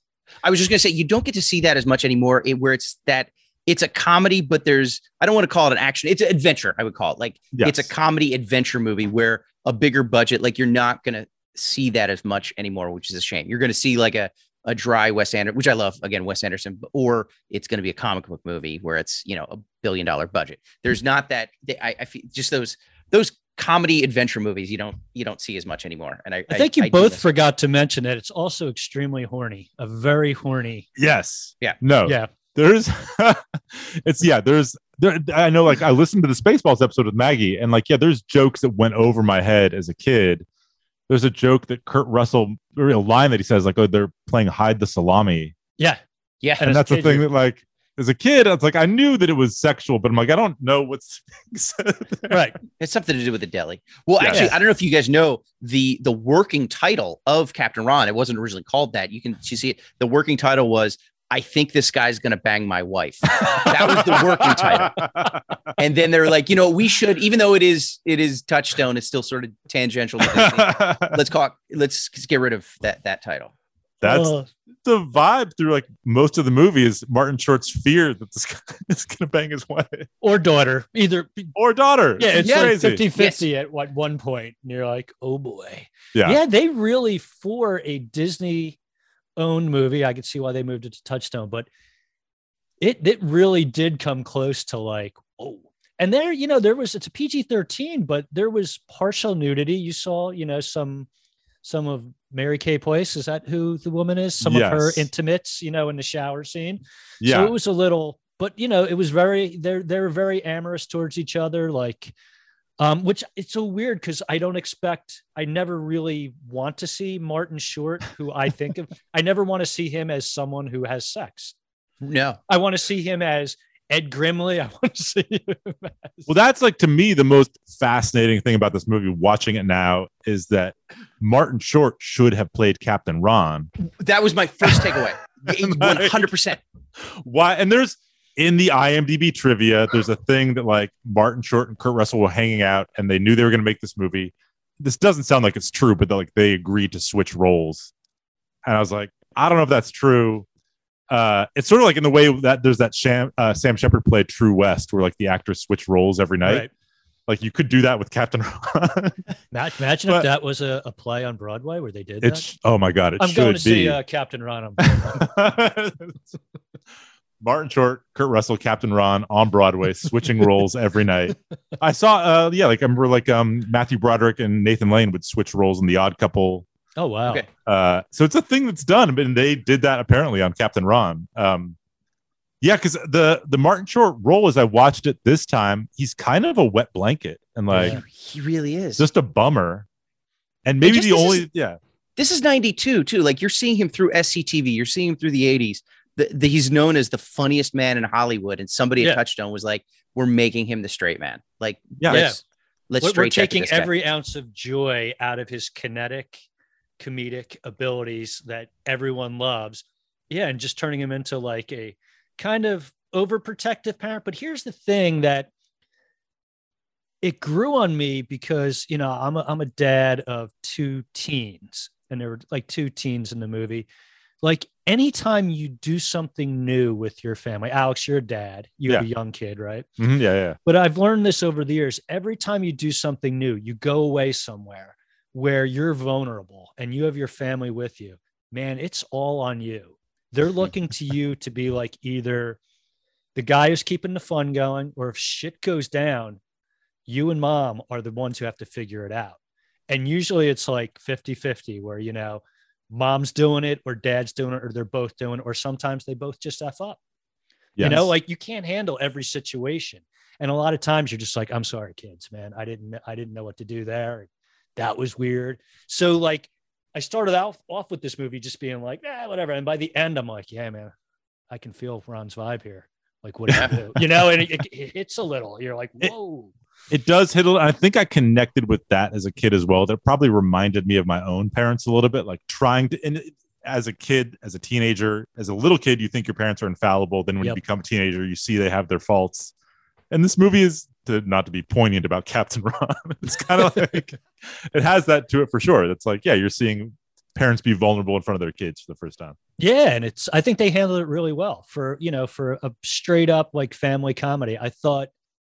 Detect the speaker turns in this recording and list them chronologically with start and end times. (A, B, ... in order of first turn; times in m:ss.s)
0:00.4-0:27.3 A
0:07.5-0:07.9 B
0:26.5-0:30.9 C
0:31.0-0:40.4 B
0:32.0-0:32.3 C
0:41.1-0:45.6 B
0:46.4-0:46.7 A
0:46.6-0:47.3 C
0:46.6-0:52.4 B
0:52.3-0:52.6 C
0:52.8-1:05.1 A
0:54.2-0:54.5 B
0:54.3-0:54.6 C
1:03.4-1:05.4 B
1:05.8-1:13.5 A
1:10.3-1:11.2 B
1:14.0-1:14.3 B
1:14.0-1:14.5 C
1:14.8-1:20.1 B
1:20.2-1:21.5 C
1:21.6-1:23.0 B
1:22.2-1:28.8 C
1:22.4-1:23.4 A
1:26.1-1:26.4 B
1:29.4-1:31.7 C
1:32.8-1:41.1 C
1:41.6-1:52.1 C
1:44.4-1:45.1 B
1:47.2-1:47.5 B
1:52.8-2:01.6 C
2:02.0-2:02.4 A
2:02.5-2:06.3 C
2:06.3-2:13.7 B
2:14.0-2:16.6 A
2:15.5-2:16.3 B
2:17.0-2:27.9 B
2:28.6-2:30.4 B
2:31.1-2:36.6 B
2:36.4-2:36.7 C
2:37.3-2:39.2 B
2:39.5-2:42.5 C
2:42.2-2:44.0 B
2:43.2-2:45.2 C
2:44.8-2:46.3 B
2:47.4-2:56.6 B
2:57.0-2:57.4 C
2:57.6-3:01.8 B
3:02.6-3:08.0 B
3:07.7-3:08.0 C
3:07.8-3:09.0 A
3:09.0-3:09.9 B
3:10.6-3:11.8 B
3:10.8-3:11.4 A
3:12.2-3:23.9 A
3:22.0-3:22.3 B
3:22.1-3:22.4 C
3:23.0-3:26.4 C
3:27.0-3:35.5 C
3:37.2-3:43.9 C
3:44.4-3:49.9 C
3:50.0-3:50.6 B
3:50.6-4:02.6 C
4:03.4-4:06.4 C
4:07.1-4:17.0 C
4:17.8-4:18.1 B
4:17.8-4:30.9 C
4:31.5-4:36.5 C
4:36.9-4:49.5 B
4:50.1-4:59.4 B
4:59.6-5:05.1 C